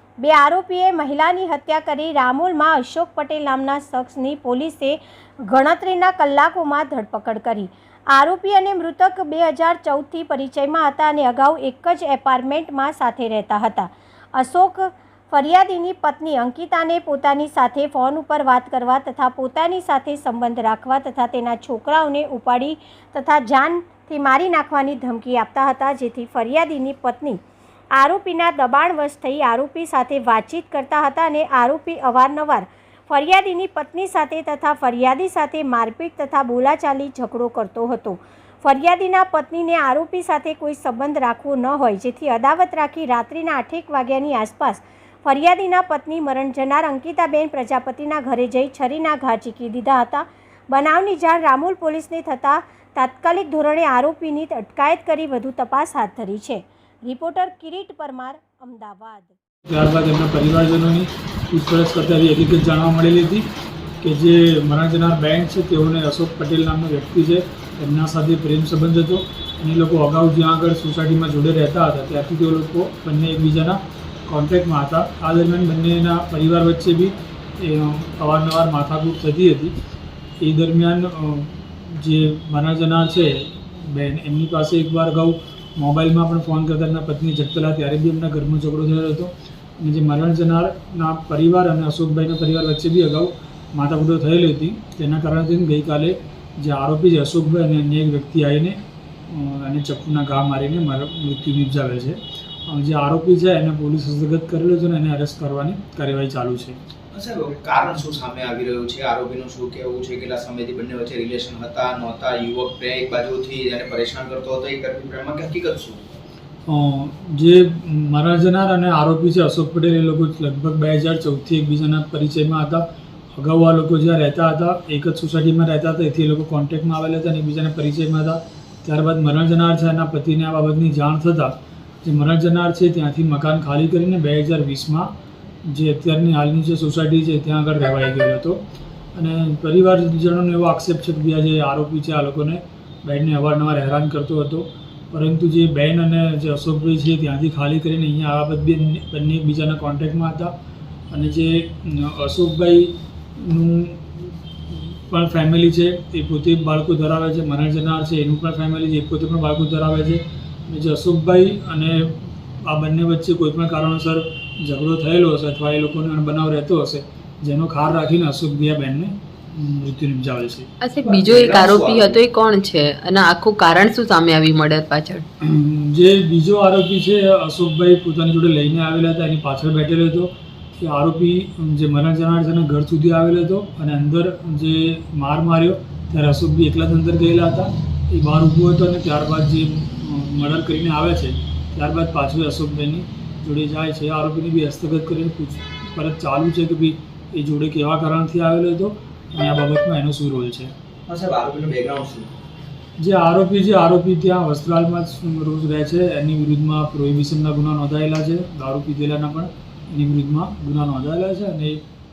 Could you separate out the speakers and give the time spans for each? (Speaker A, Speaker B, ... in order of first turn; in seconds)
Speaker A: 0.2-27.4, 27.9-59.3
Speaker B: 59.6-63.5, 64.0-79.7, 80.4-106.8, 116.7-122.8, 123.3-135.1, 135.7-138.6, 139.1-150.5, 151.1-170.7, 175.4-200.7, 203.0-211.8
Speaker C: 107.1-116.0, 171.0-172.2, 201.1-202.3
Speaker D: 170.8-175.2